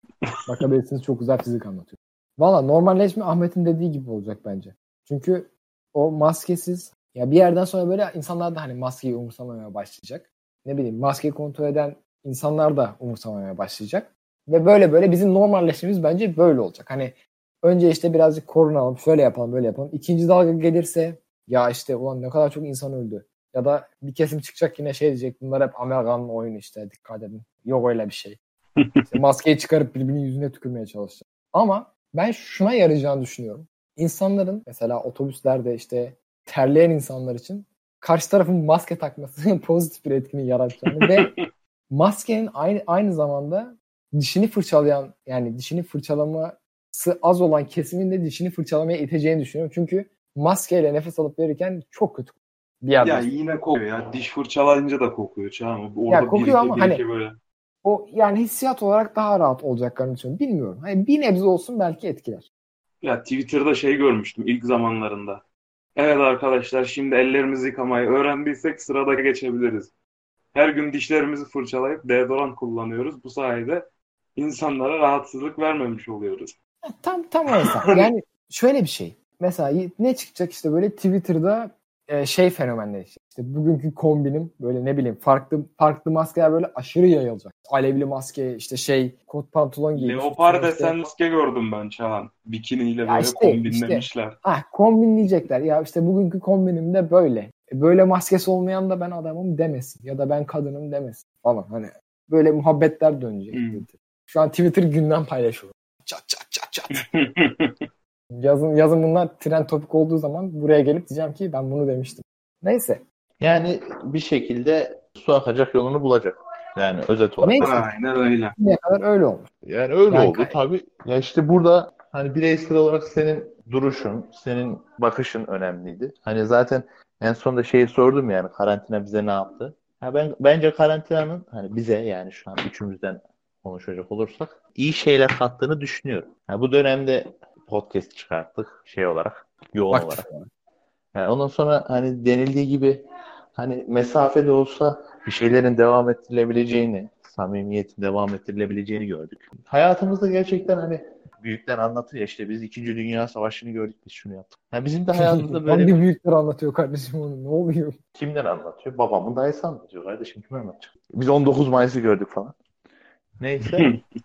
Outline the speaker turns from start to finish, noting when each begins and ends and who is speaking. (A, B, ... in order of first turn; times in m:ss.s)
0:00.5-0:28.4 A
0:28.8-0:29.0 B
0:29.1-0:41.3 A
0:40.9-0:41.4 B
0:41.9-0:53.3 A
0:53.0-0:57.4 B
0:56.1-0:57.0 A
0:57.8-1:02.5 A
1:03.0-1:05.4 B
1:06.0-1:09.9 B
1:10.5-1:13.8 B
1:14.4-1:16.5 B
1:16.9-1:31.0 A
1:17.6-1:17.9 B
1:29.9-1:34.4 B
1:33.1-1:47.0 A
1:43.5-1:43.9 B
1:47.0-1:47.9 B
1:48.3-1:53.0 A
1:53.4-1:57.8 C
1:57.4-1:57.8 A
1:57.6-1:58.6 B
1:58.6-1:59.5 A
1:59.6-2:20.3 C
2:00.1-2:00.6 A
2:19.9-2:20.5 A
2:21.2-2:23.0 C
2:23.6-2:36.0 C
2:35.1-2:38.0 A
2:38.2-2:42.6 C
2:43.4-2:43.9 C
2:43.7-2:44.0 B